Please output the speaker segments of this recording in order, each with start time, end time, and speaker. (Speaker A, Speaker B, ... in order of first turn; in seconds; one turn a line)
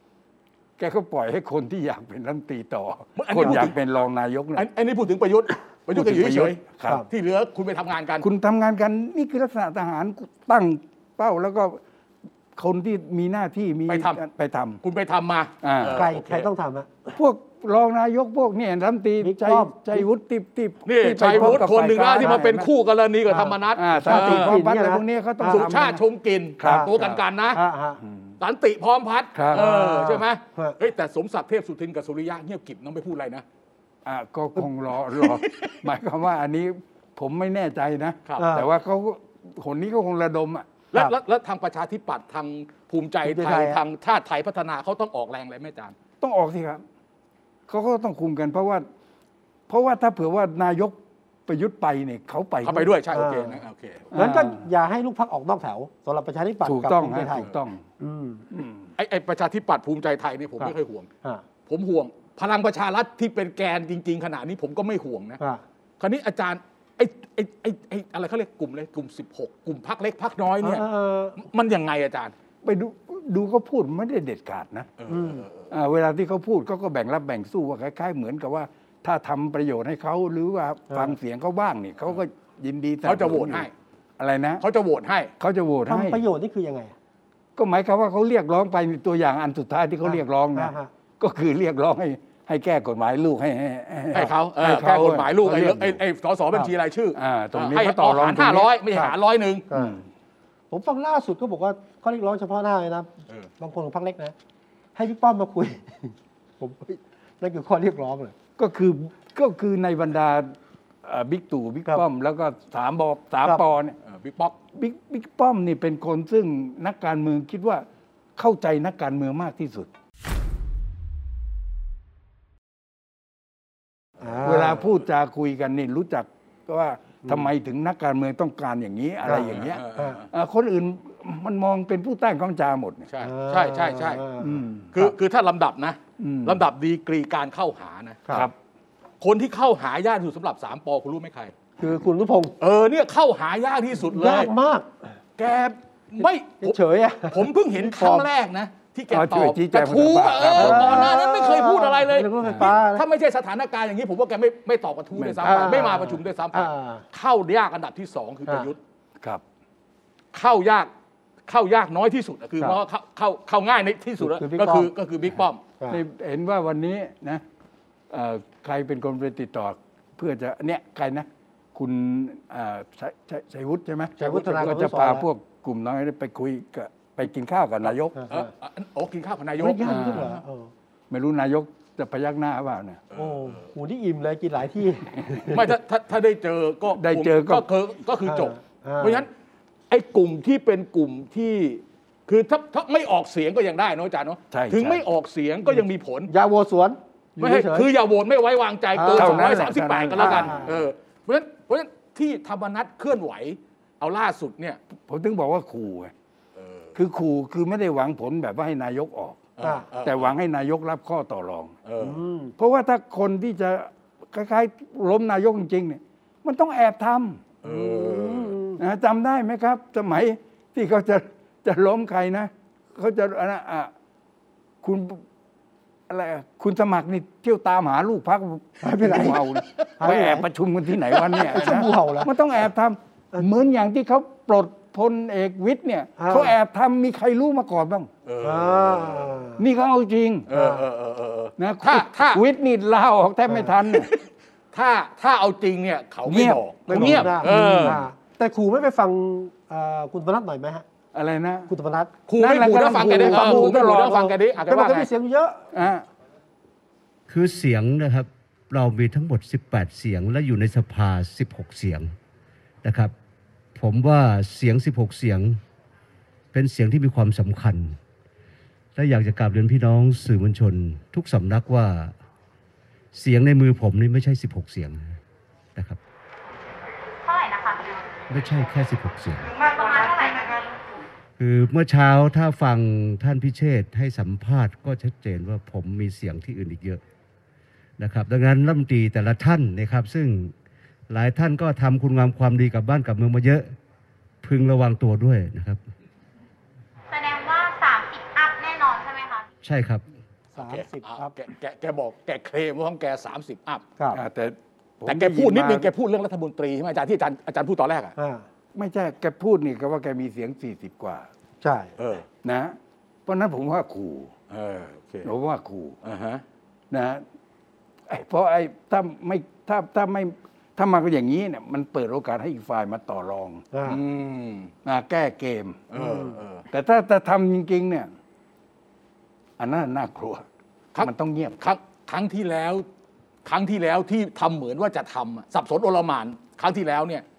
Speaker A: 0.8-4.7
Speaker B: 3.2-3.8
Speaker B: 4.6-8.3
Speaker A: 5.9-7.0
Speaker A: 8.2-11.8
Speaker A: 12.6-14.8
Speaker B: 13.9-14.2
Speaker B: 14.8-16.5
Speaker A: 15.6-16.0
Speaker C: 15.9-17.2
Speaker A: 17.1-22.7
Speaker C: 19.2-20.1
Speaker B: 20.9-24.6
Speaker C: 21.3-21.6
Speaker C: 23.3-25.7
Speaker A: 23.8-26.0
Speaker B: 25.5-27.6
Speaker A: 26.6-27.2
Speaker C: 26.6-26.9
Speaker C: 27.5-28.0
Speaker A: 28.0-28.3
Speaker B: 28.4-33.4
Speaker A: 29.4-29.7
Speaker C: 29.5-30.8
Speaker A: 34.0-40.7
Speaker B: 35.2-35.8
Speaker C: 38.4-38.7
Speaker B: 40.9-46.0
Speaker C: 43.2-43.8
Speaker A: 46.2-46.8
Speaker A: 47.7-48.9
Speaker A: 49.7-52.9
Speaker B: 52.6-54.1
Speaker C: 53.1-53.6
Speaker A: 54.1-54.6
Speaker C: 54.1-57.5
Speaker A: 56.6-57.8
Speaker C: 58.0-58.5
Speaker A: 58.5-58.9
Speaker B: 59.0-61.1
Speaker B: 61.7-65.4
Speaker B: 66.0-70.8
Speaker C: 70.6-71.4
Speaker B: 71.4-72.3
Speaker A: 72.6-74.9
Speaker B: 75.0-75.7
Speaker C: 75.1-75.5
Speaker A: 75.7-83.7
Speaker C: 80.9-81.2
Speaker B: 83.0-83.7
Speaker A: 84.2-84.6
Speaker B: 84.6-85.3
Speaker A: 85.4-86.2
Speaker C: 85.9-86.9
Speaker A: 87.6-96.0
Speaker C: 90.0-90.9
Speaker B: 94.1-99.7
Speaker A: 97.2-98.7
Speaker C: 99.7-100.0
Speaker A: 99.7-100.0
Speaker C: 100.7-104.3
Speaker C: 105.0-108.3
Speaker A: 108.6-114.0
Speaker B: 114.0-114.6
Speaker A: 114.7-119.9
Speaker C: 124.2-124.8
Speaker A: 124.4-133.1
Speaker B: 124.4-124.7
Speaker C: 127.2-127.5
Speaker C: 129.2-130.2
Speaker B: 129.3-130.3
Speaker B: 133.1-134.2
Speaker C: 133.2-135.1
Speaker A: 134.4-134.9
Speaker B: 134.9-138.3
Speaker A: 136.2-136.7
Speaker A: 138.3-138.5
Speaker B: 139.2-141.5
Speaker C: 141.8-142.5
Speaker B: 142.6-144.5
Speaker C: 144.0-145.0
Speaker B: 145.4-158.8
Speaker C: 146.6-148.3
Speaker A: 149.1-151.2
Speaker C: 150.5-153.1
Speaker A: 152.4-152.7
Speaker A: 155.2-155.9
Speaker C: 155.4-157.0
Speaker B: 160.3-160.9
Speaker B: 161.5-165.6
Speaker C: 164.2-164.9
Speaker A: 165.9-167.4
Speaker A: 168.1-178.2
Speaker C: 174.2-175.3
Speaker B: 177.9-180.4
Speaker C: 178.2-178.5
Speaker C: 179.6-180.7
Speaker A: 179.8-180.3
Speaker A: 181.1-183.0
Speaker B: 183.1-183.6
Speaker C: 183.1-185.7
Speaker B: 185.5-189.3
Speaker A: 186.9-187.7
Speaker C: 188.3-189.3
Speaker B: 189.9-196.3
Speaker A: 194.5-195.0
Speaker C: 196.3-197.9
Speaker B: 197.4-204.8
Speaker C: 198.9-200.8
Speaker A: 199.1-200.8
Speaker A: 205.0-206.1
Speaker B: 206.6-206.9
Speaker A: 206.9-209.5
Speaker B: 209.6-210.3
Speaker C: 209.6-209.9
Speaker A: 210.0-211.8
Speaker B: 211.9-212.2
Speaker C: 212.0-212.5
Speaker A: 212.6-217.5
Speaker B: 217.6-218.6
Speaker C: 217.6-218.8
Speaker A: 218.8-223.9
Speaker A: 224.8-225.2
Speaker A: 226.1-238.1
Speaker C: 228.8-229.4
Speaker B: 229.8-230.2
Speaker C: 230.0-230.4
Speaker B: 231.1-231.7
Speaker C: 231.3-232.3
Speaker C: 236.2-236.6
Speaker B: 238.3-239.4
Speaker C: 238.4-239.6
Speaker A: 239.6-240.5
Speaker B: 240.5-242.4
Speaker C: 240.5-240.8
Speaker A: 241.6-244.1
Speaker B: 243.9-248.0
Speaker A: 246.3-248.0
Speaker C: 246.9-250.8
Speaker A: 251.1-251.7
Speaker C: 251.7-255.6
Speaker B: 252.3-255.1
Speaker A: 252.4-254.2
Speaker A: 255.7-256.1
Speaker D: 257.3-262.1
Speaker D: 262.8-263.1
Speaker D: 263.8-265.6
Speaker D: 266.5-268.0
Speaker D: 269.0-272.1
Speaker D: 273.1-275.2
Speaker D: 275.8-276.0
Speaker E: 277.2-278.2
Speaker D: 278.3-279.6
Speaker E: 279.6-280.8
Speaker D: 281.4-287.0
Speaker D: 288.0-290.6
Speaker D: 291.1-293.8
Speaker D: 294.4-295.8
Speaker E: 297.1-299.5
Speaker D: 299.6-300.0
Speaker C: 300.6-301.3
Speaker B: 300.6-303.8
Speaker A: 304.1-305.9
Speaker B: 305.1-308.1
Speaker C: 308.2-308.5
Speaker A: 308.8-311.3
Speaker C: 311.6-311.9
Speaker B: 312.0-312.3
Speaker A: 312.4-314.3
Speaker B: 314.5-315.3
Speaker A: 315.2-316.0
Speaker B: 316.0-316.4
Speaker A: 316.9-317.2
Speaker A: 318.1-323.6
Speaker C: 323.7-324.0
Speaker B: 323.9-324.7
Speaker A: 324.9-325.9
Speaker B: 325.9-326.6
Speaker C: 325.9-326.4
Speaker A: 326.7-328.1
Speaker A: 329.6-330.4
Speaker B: 330.9-332.9
Speaker A: 331.0-331.6
Speaker B: 333.5-337.2